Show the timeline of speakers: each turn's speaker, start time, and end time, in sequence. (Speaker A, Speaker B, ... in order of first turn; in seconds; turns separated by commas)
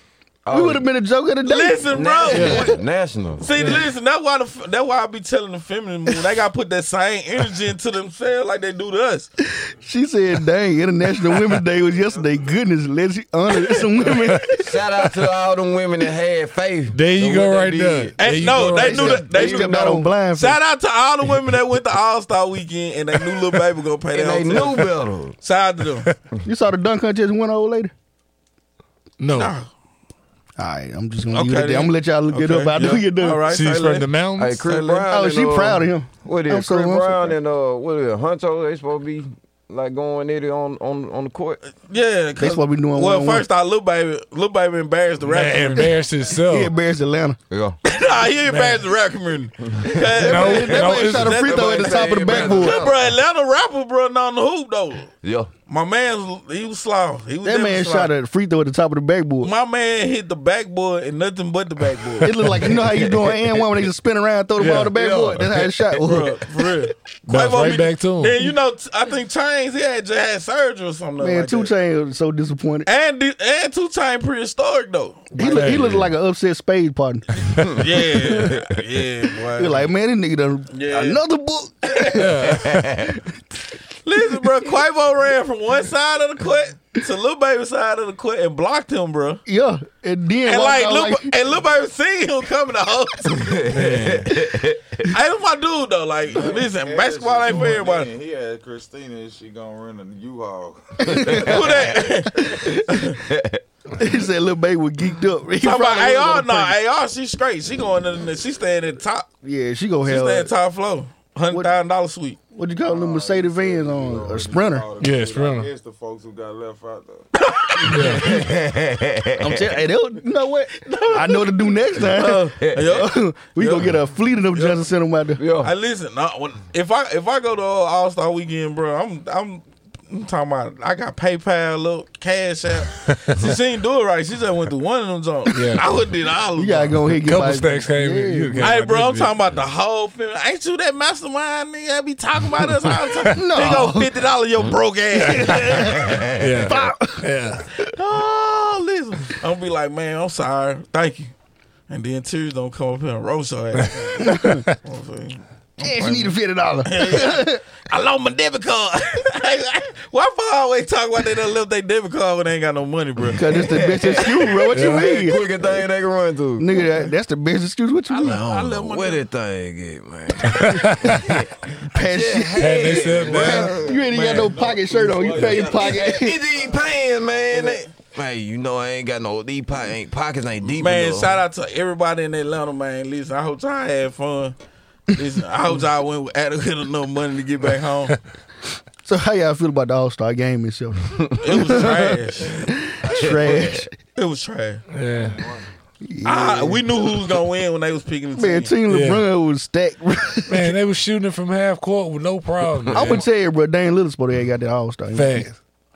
Speaker A: 0.4-0.9, Speaker B: 0.5-2.7, Speaker C: 1.4-2.7, Speaker A: 1.9-3.5, Speaker D: 2.3-2.7, Speaker C: 3.4-9.3, Speaker D: 3.6-3.8, Speaker B: 9.5-14.7, Speaker E: 11.9-12.3, Speaker A: 14.6-18.5, Speaker D: 16.9-19.2, Speaker C: 18.2-26.1, Speaker B: 18.7-20.6, Speaker A: 19.3-20.1, Speaker A: 24.1-25.4, Speaker B: 26.4-27.9, Speaker D: 29.2-29.5, Speaker C: 29.3-29.7, Speaker B: 30.6-33.4, Speaker C: 31.3-34.1, Speaker D: 33.4-34.6, Speaker A: 34.4-41.6, Speaker C: 34.6-35.0, Speaker B: 35.1-37.4, Speaker C: 41.8-45.9, Speaker B: 42.4-43.4, Speaker D: 45.2-46.7, Speaker B: 46.4-47.4, Speaker A: 47.5-47.8, Speaker C: 47.9-55.1, Speaker D: 48.5-48.8, Speaker D: 50.2-51.5, Speaker B: 50.2-52.9, Speaker A: 50.5-53.1, Speaker A: 55.2-55.5, Speaker C: 55.7-58.1, Speaker B: 57.4-59.5, Speaker C: 59.4-62.3, Speaker B: 62.2-66.8, Speaker A: 63.0-63.4, Speaker D: 64.6-64.9, Speaker A: 64.9-66.0, Speaker C: 66.0-71.7, Speaker D: 67.3-68.4, Speaker B: 71.2-72.9, Speaker C: 72.9-75.3, Speaker B: 75.4-77.4, Speaker D: 75.4-76.1, Speaker C: 77.6-79.9, Speaker B: 78.1-78.5, Speaker B: 79.5-82.5, Speaker C: 80.7-81.2, Speaker C: 81.9-82.2, Speaker D: 82.1-82.8, Speaker A: 82.6-83.1, Speaker C: 84.0-89.4, Speaker B: 89.5-91.3, Speaker C: 90.4-93.6, Speaker A: 93.4-95.0, Speaker D: 93.7-94.3, Speaker C: 95.0-98.1, Speaker E: 96.3-101.9, Speaker A: 101.1-101.4, Speaker B: 101.1-101.4, Speaker C: 101.4-103.2, Speaker A: 103.2-103.6, Speaker B: 104.0-106.8, Speaker C: 105.6-109.2, Speaker B: 109.4-110.5, Speaker C: 110.0-112.4, Speaker B: 112.5-114.9, Speaker E: 112.8-117.3, Speaker D: 115.0-115.7, Speaker C: 117.4-118.2, Speaker D: 117.9-118.3, Speaker A: 118.2-119.5, Speaker B: 119.4-125.4, Speaker C: 120.8-121.6, Speaker A: 122.1-122.8, Speaker C: 122.6-123.9, Speaker C: 124.5-124.8, Speaker A: 125.4-125.7, Speaker C: 125.6-137.0, Speaker D: 135.5-135.9, Speaker B: 136.6-138.7, Speaker D: 137.2-139.4, Speaker C: 138.6-146.2, Speaker B: 143.3-144.1, Speaker B: 145.5-147.3, Speaker A: 146.0-146.2, Speaker D: 146.3-147.6, Speaker C: 147.9-151.3, Speaker C: 151.9-156.3, Speaker D: 153.8-154.7, Speaker B: 154.2-154.6, Speaker B: 155.8-157.6, Speaker C: 156.8-163.6, Speaker B: 163.3-165.7, Speaker A: 163.5-166.7, Speaker D: 164.8-165.1, Speaker B: 166.6-168.4, Speaker C: 168.1-169.2, Speaker A: 168.2-174.5, Speaker D: 170.5-171.4, Speaker B: 171.9-176.4, Speaker D: 172.6-173.8, Speaker E: 173.1-176.8, Speaker A: 175.3-181.4, Speaker C: 177.5-177.8, Speaker C: 180.8-184.5, Speaker C: 185.1-188.2, Speaker B: 189.0-193.9, Speaker C: 191.4-192.7, Speaker E: 193.0-193.6, Speaker A: 193.2-193.8, Speaker C: 194.1-194.8, Speaker D: 194.9-195.4, Speaker E: 195.1-195.7, Speaker B: 196.0-197.0, Speaker C: 196.2-198.8, Speaker B: 198.3-200.8, Speaker D: 198.9-199.2, Speaker D: 200.5-203.2, Speaker B: 202.9-205.5, Speaker D: 205.1-205.5